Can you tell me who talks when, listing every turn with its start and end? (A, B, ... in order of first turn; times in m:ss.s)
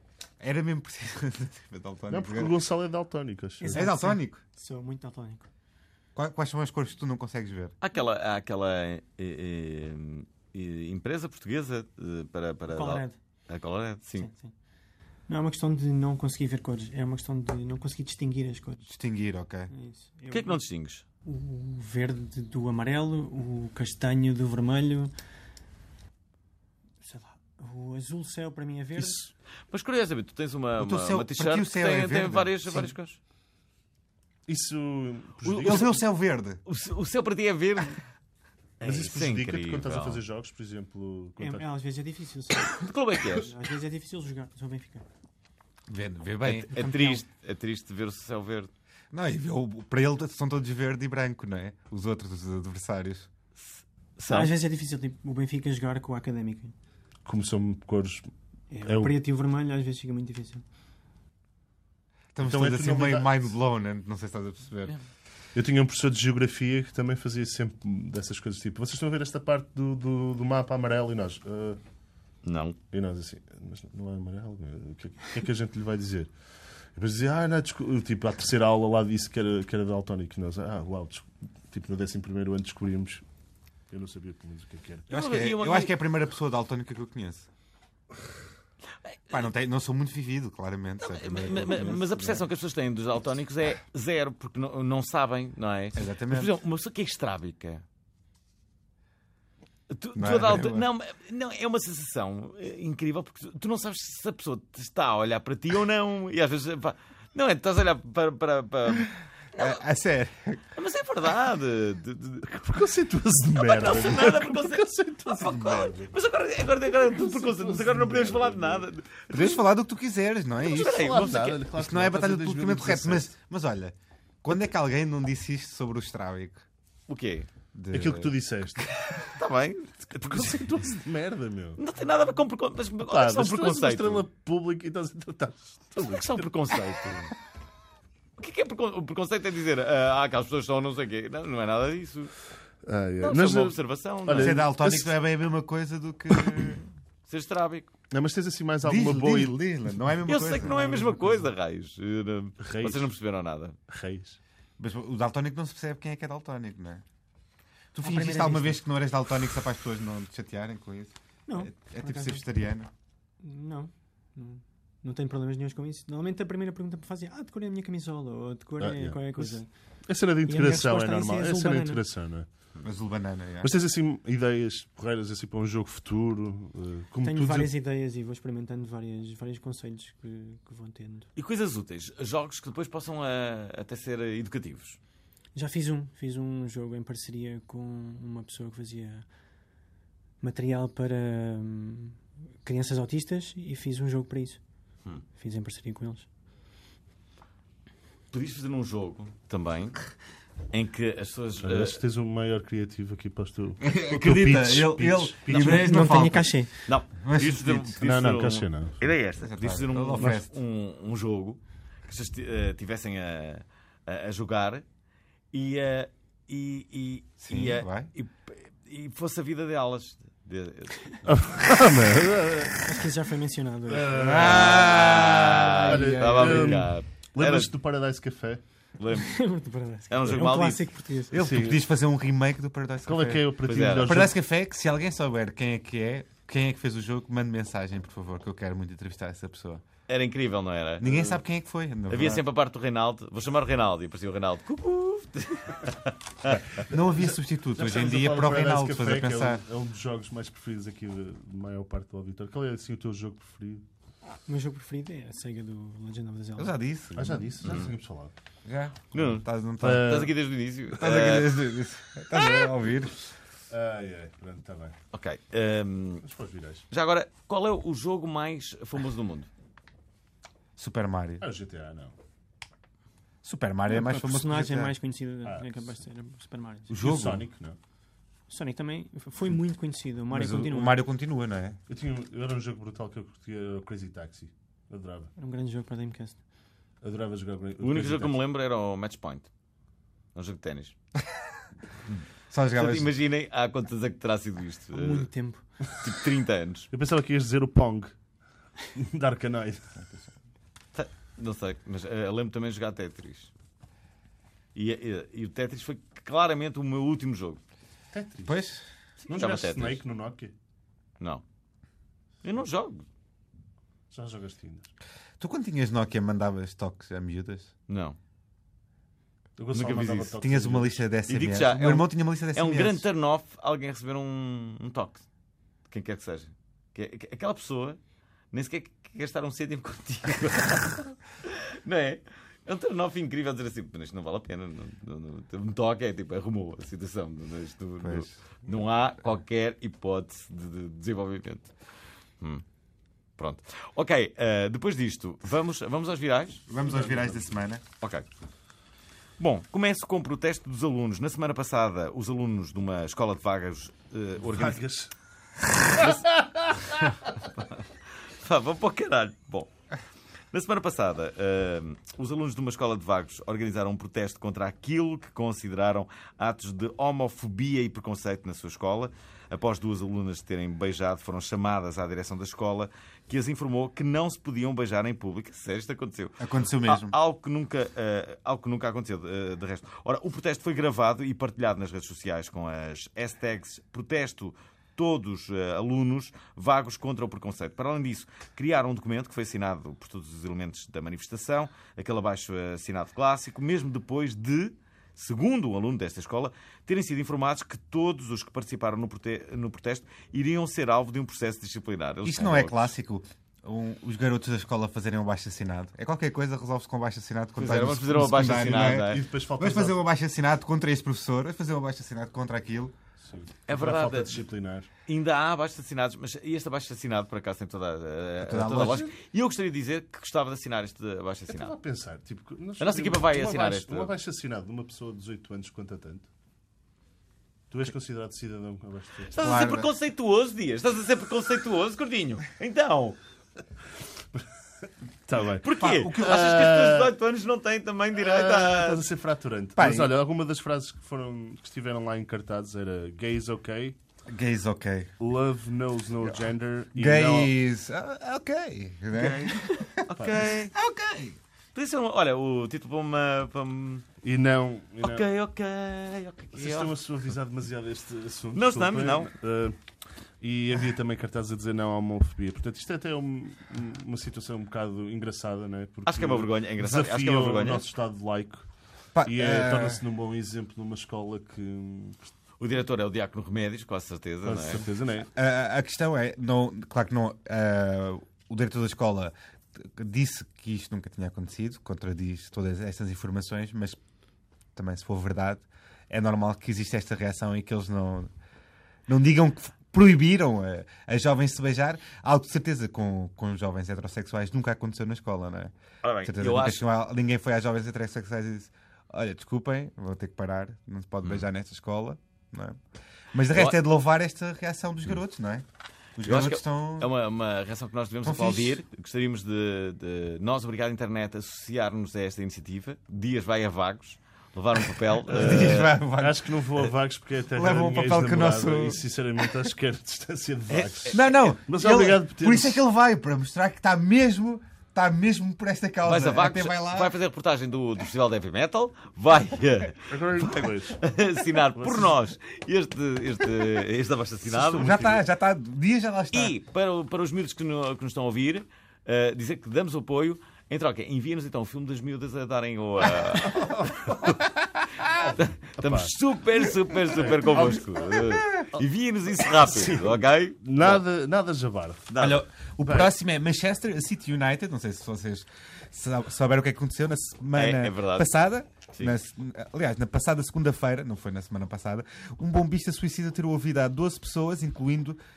0:00.4-0:02.5 A
0:02.1-0:03.9 B
0:03.6-0:05.5 C
0:03.7-0:04.4 A
0:06.2-0:07.7 A
0:07.8-0:14.3 D
0:12.7-0:13.2 C
0:14.2-0:14.5 C
0:15.3-0:18.8 C
0:18.8-0:19.7 A
0:19.7-0:20.6 C
0:20.3-0:21.0 D
0:21.2-0:25.1 C
0:27.0-0:29.3 C
0:29.7-0:33.2 D
0:30.8-0:32.9 A
0:34.5-0:36.0 B
0:35.4-0:35.9 D
0:35.6-0:36.6 A
0:36.7-0:38.0 D
0:38.8-0:40.2 D
0:38.8-0:41.7 B
0:41.4-0:45.0 C
0:42.6-0:43.5 D
0:45.9-0:47.1 A
0:46.4-0:48.7 D
0:46.8-0:47.2 C
0:49.1-0:53.3 A
0:53.7-0:54.5 D
0:54.3-0:56.7 C
0:57.2-0:58.3 B
0:58.7-1:00.6 C
0:58.8-0:59.1 B
1:02.3-1:05.0 A
1:02.4-1:03.4 B
1:05.6-1:11.8 B
1:12.4-1:12.8 D
1:12.9-1:16.3 B
1:16.9-1:23.2 B
1:23.9-1:25.1 B
1:25.1-1:27.5 A
1:25.1-1:25.9 D
1:29.3-1:32.4 A
1:31.0-1:37.8 D
1:36.0-1:36.5 A
1:39.9-1:49.8 D
1:40.2-1:40.9 A
1:49.6-1:50.6 A
1:50.8-1:52.5 D
1:52.4-1:55.9 B
1:53.6-1:59.6 D
1:55.6-1:55.9 A
1:57.0-1:58.9 B
1:59.3-2:01.2 A
2:00.6-2:01.7 D
2:00.8-2:03.3 B
2:01.7-2:06.6 A
2:07.1-2:07.5 D
2:07.7-2:08.3 A
2:07.9-2:08.9 B
2:08.8-2:11.0 D
2:10.3-2:11.8 B
2:11.8-2:14.3 D
2:13.0-2:16.5 B
2:16.0-2:17.3 D
2:18.4-2:22.3 D
2:22.8-2:25.1 B
2:23.2-2:25.0 D
2:24.3-2:26.9 A
2:27.3-2:27.9 D
2:28.1-2:29.6 B
2:28.8-2:30.8 A
2:30.3-2:33.8 D
2:32.6-2:33.1 B
2:33.9-2:34.4 B
2:34.8-2:37.0 A
2:37.9-2:42.9 A
2:38.0-2:38.8 C
2:41.5-2:42.4 C
2:43.4-2:49.7 C
2:48.8-2:52.5 B
2:50.4-2:52.0 C
2:52.8-2:53.7 A
2:53.6-2:57.7 B
2:57.2-3:01.3 C
3:01.4-3:05.0 D
3:05.6-3:09.3 C
3:10.4-3:14.6 C
3:15.4-3:16.3 C
3:18.3-3:20.1 D
3:20.7-3:22.0 D
3:21.6-3:26.0 B
3:23.8-3:26.6 A
3:24.3-3:24.9 D
3:25.5-3:26.7 C
3:25.7-3:26.0 D
3:26.9-3:34.8 D
3:27.1-3:28.0 A
3:28.0-3:29.0 B
3:29.5-3:30.5 A
3:35.5-3:41.3 D
3:37.4-3:38.1 A
3:41.2-3:42.9 B
3:42.8-3:44.4 C
3:43.9-3:45.0 B
3:44.1-3:46.9 A
3:44.3-3:47.7 D
3:45.9-3:48.6 B
3:49.0-3:49.4 D
3:49.1-3:51.4 C
3:50.1-3:50.8 D
3:51.3-3:53.5 A
3:51.3-3:51.8 B
3:53.0-3:54.4 B
3:53.6-3:54.3 D
3:54.0-3:59.8 A
4:00.1-4:01.4 D
4:01.0-4:02.4 A
4:02.1-4:06.6 D
4:06.8-4:09.6 A
4:07.8-4:13.8 B
4:14.5-4:16.8 C
4:16.6-4:17.6 A
4:17.1-4:18.3 B
4:17.6-4:17.9 D
4:18.7-4:20.3 A
4:19.1-4:21.6 D
4:19.8-4:20.3 B
4:21.0-4:23.2 A
4:23.7-4:25.0 B
4:25.1-4:26.3 D
4:26.2-4:26.8 B
4:26.9-4:29.5 D
4:30.8-4:31.4 A
4:31.4-4:32.2 B
4:33.4-4:34.9 A
4:33.9-4:36.9 C
4:35.4-4:35.9 B
4:36.9-4:37.8 B
4:37.0-4:37.4 A
4:38.5-4:41.0 C
4:40.3-4:41.8 A
4:41.9-4:45.3 B
4:45.4-4:46.4 C
4:47.0-4:48.4 B
4:47.8-4:49.5 D
4:50.4-4:51.0 D
4:52.5-4:53.1 A
4:52.8-4:55.3 D
4:54.9-4:55.7 C
4:55.9-4:56.9 D
4:56.9-4:58.2 B
4:58.9-5:00.0 B
5:01.0-5:03.5 D
5:04.8-5:07.6 D
5:08.1-5:08.6 B
5:08.5-5:08.9 A
5:09.3-5:10.5 B
5:09.3-5:10.0 D
5:12.4-5:13.0 D
5:14.1-5:14.9 B
5:15.4-5:17.7 A
5:17.9-5:18.2 D
5:19.6-5:21.0 B
5:19.7-5:20.4 D
5:20.4-5:23.1 A
5:21.3-5:25.2 D
5:25.9-5:28.0 D
5:28.5-5:41.7 D
5:38.0-5:38.3 A
5:43.4-5:46.6 D
5:46.7-5:47.8 A
5:46.8-5:47.4 B
5:48.0-5:48.3 D
5:49.4-5:54.8 D
5:54.4-5:55.1 B
5:55.8-5:57.0 B
5:56.0-5:56.2 D
5:56.9-5:57.8 D
5:58.4-5:59.7 D
6:00.5-6:42.9 D
6:16.4-6:17.1 A
6:42.2-6:53.0 A
6:47.6-6:49.2 D
6:48.4-6:50.0 B
6:53.2-6:54.9 B
6:53.7-6:54.4 D
6:55.1-7:01.8 D
6:58.4-6:59.1 A
7:01.5-7:06.3 B
7:02.8-7:04.1 D
7:07.7-7:09.4 B
7:09.3-7:13.2 D
7:09.4-7:09.9 A
7:15.3-7:17.1 B
7:15.6-7:19.0 D
7:15.8-7:16.5 A
7:18.2-7:24.0 B
7:19.8-7:20.1 A
7:24.3-7:25.1 A
7:25.2-7:27.5 B
7:26.2-7:30.1 A
7:29.1-7:30.7 D
7:30.7-7:31.4 A
7:31.8-7:34.1 D
7:34.2-7:35.2 B
7:35.0-7:36.9 D
7:36.5-7:39.8 B
7:38.5-7:39.3 D
7:40.4-7:48.7 B
7:46.1-7:47.9 D
7:49.2-7:50.0 A
7:49.2-7:52.3 B
7:52.6-7:54.9 D
7:54.4-7:55.3 B
7:55.4-8:04.0 A
8:04.8-8:08.3 A
8:09.1-8:15.7 A
8:16.0-8:16.8 D
8:16.2-8:22.8 A
8:23.3-8:25.6 A
8:26.2-8:27.1 A
8:26.2-8:36.0 D
8:28.2-8:28.8 A
8:35.3-8:42.8 B
8:35.3-8:36.9 A
8:37.5-8:39.0 A
8:40.7-8:41.5 D
8:41.1-8:47.2 A
8:46.0-8:55.0 D
8:50.1-8:51.0 B
8:51.8-8:52.1 B
8:54.5-8:55.2 B
8:54.8-8:56.5 A
8:56.3-9:04.4 D
9:03.5-9:04.2 B
9:05.1-9:06.1 B
9:05.4-9:11.0 D
9:07.1-9:07.8 B
9:08.2-9:08.7 A
9:10.6-9:12.1 B
9:12.1-9:12.4 D
9:12.2-9:25.2 A
9:12.8-9:13.1 B
9:17.6-9:18.3 D